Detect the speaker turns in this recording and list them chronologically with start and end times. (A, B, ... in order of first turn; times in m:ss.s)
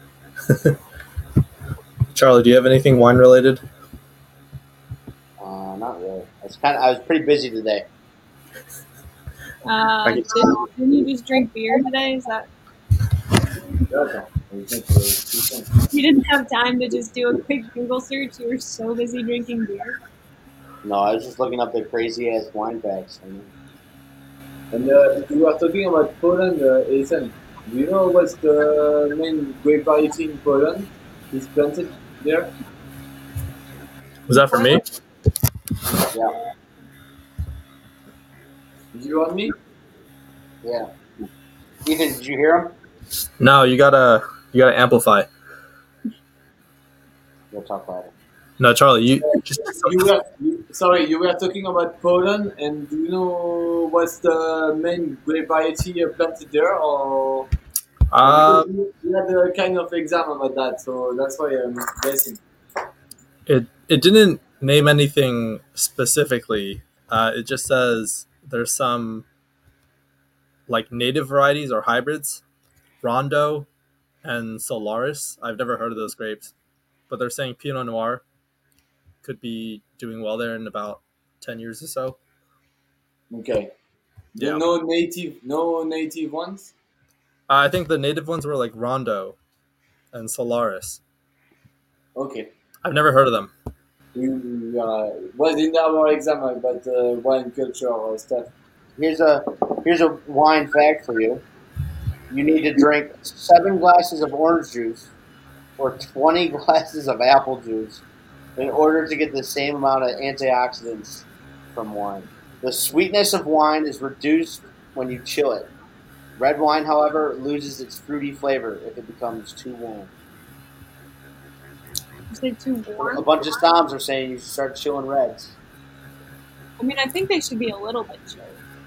0:00.5-0:00.8 A
0:02.1-0:03.6 A
0:05.4-0:07.9 B
0:09.6-0:12.5 C
0:13.9-0:15.7 D
0:15.9-0:20.0 C
0:20.8-0:23.5 B
0:24.7-0:32.6 D
0:34.3-0:34.8 A
0:38.9-0:39.6 D
0:40.6-0:40.9 B
0:41.8-0:42.8 B
0:43.4-0:45.3 A
0:47.5-0:48.1 B
0:48.6-0:50.1 A
0:49.3-0:57.5 D
0:58.1-0:58.7 A
0:58.2-1:02.4 D
1:03.5-1:09.2 A
1:10.7-1:12.4 A
1:13.0-1:13.7 A
1:14.2-1:16.5 A
1:17.1-1:18.2 A
1:19.2-1:22.2 A
1:23.3-1:23.7 D
1:24.3-1:26.7 D
1:27.5-1:29.4 A
1:30.1-1:31.0 A
1:32.2-1:32.5 D
1:32.8-1:33.5 A
1:34.2-1:38.5 D
1:39.0-1:41.4 B
1:42.3-1:45.1 B
1:45.8-1:48.0 B
1:48.6-1:55.7 B
1:56.4-2:00.1 B
2:02.3-2:03.5 C
2:03.0-2:05.5 B
2:06.8-2:08.6 C